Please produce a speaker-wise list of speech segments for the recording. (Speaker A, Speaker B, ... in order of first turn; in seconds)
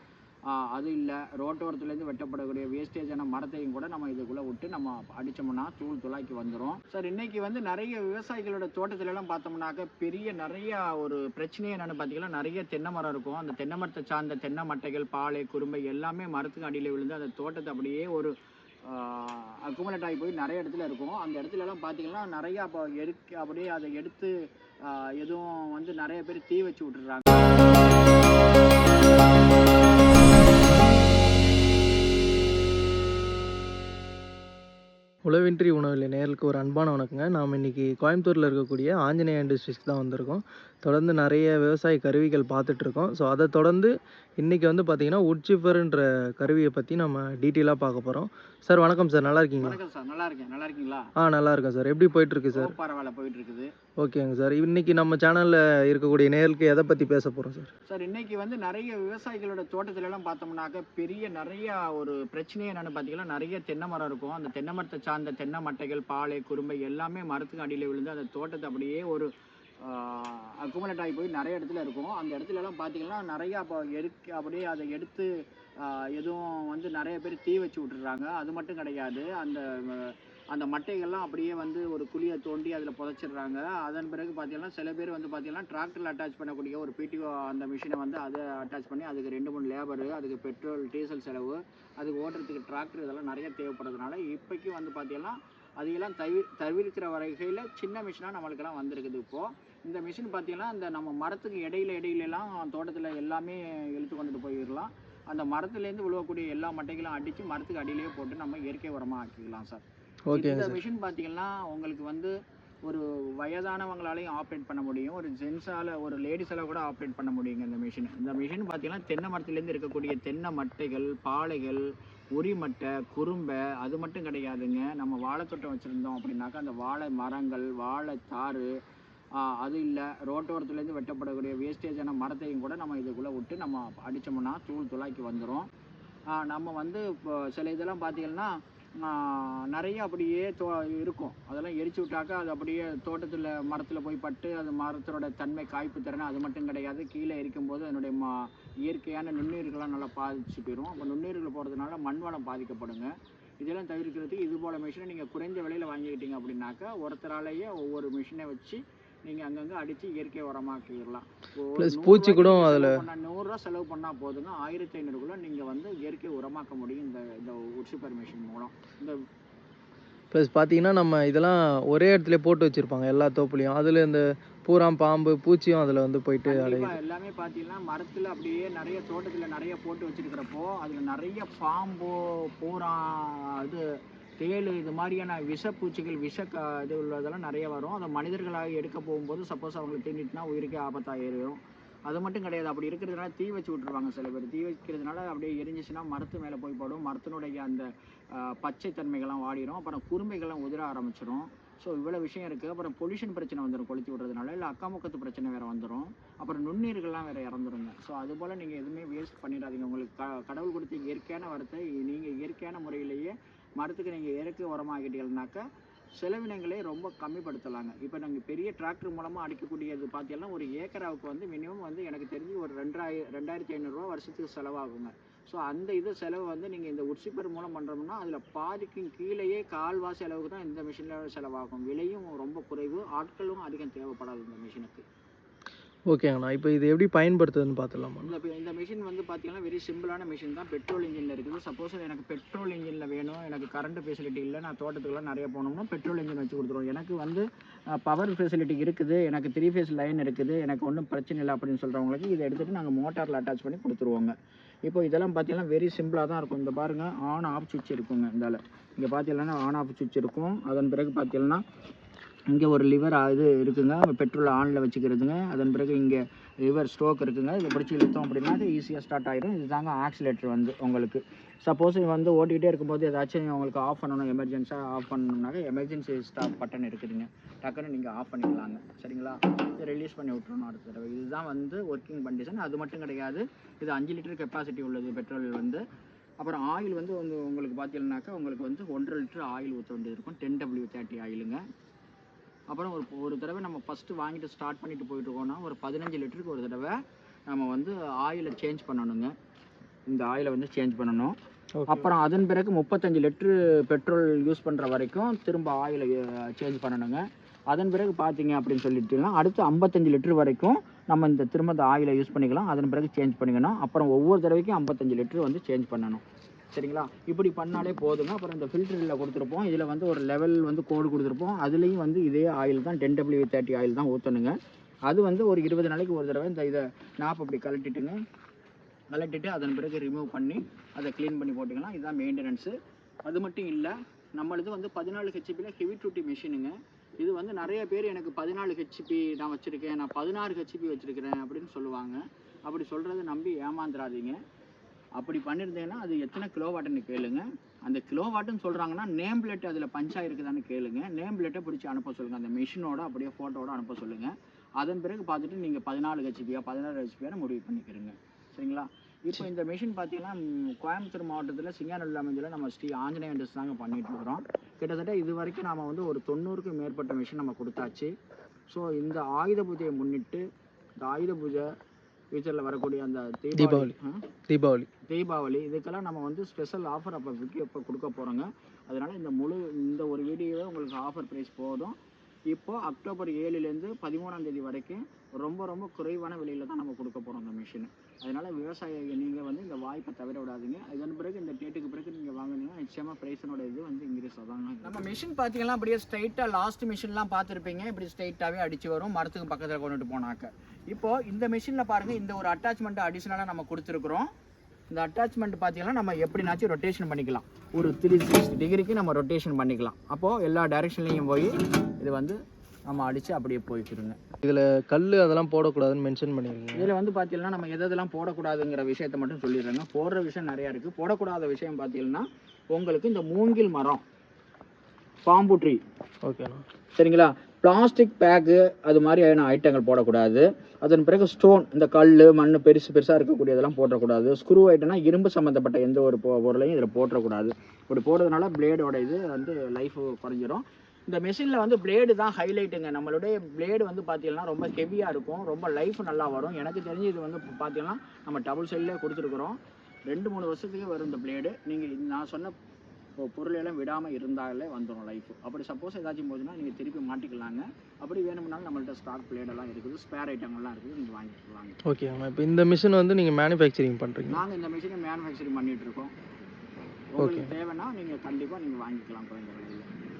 Speaker A: 0.5-18.3, 18.8-24.3, 24.8-27.5, 49.6-51.0, 52.5-53.7, 57.9-75.3, 75.8-109.8, 110.3-112.3, 112.8-128.7, 129.3-135.7, 136.3-169.1, 176.4-183.8, 184.4-215.6, 216.2-235.0, 238.2-247.4, 248.0-254.3, 254.8-261.6, 262.5-285.8, 286.4-291.6, 292.7-299.3, 300.1-301.4, 301.9-324.6, 325.1-328.2, 329.1-332.7, 333.2-344.4, 345.2-368.1, 368.7-370.4, 371.0-371.7, 372.3-374.2, 375.1-381.9, 382.5-404.3, 404.9-414.2, 416.7-424.0, 425.2-425.8, 427.0-449.6, 450.1-452.5, 453.2-461.8, 464.3-466.1, 467.1-469.9
Speaker B: 35.2-49.8, 51.2-52.7, 54.0-57.7, 110.3-110.8, 161.8-163.0, 170.3-176.9, 236.1-238.3, 301.8-302.1, 373.6-373.9, 374.5-374.9, 414.4-416.9, 426.2-426.6, 461.8-464.4, 467.2-467.5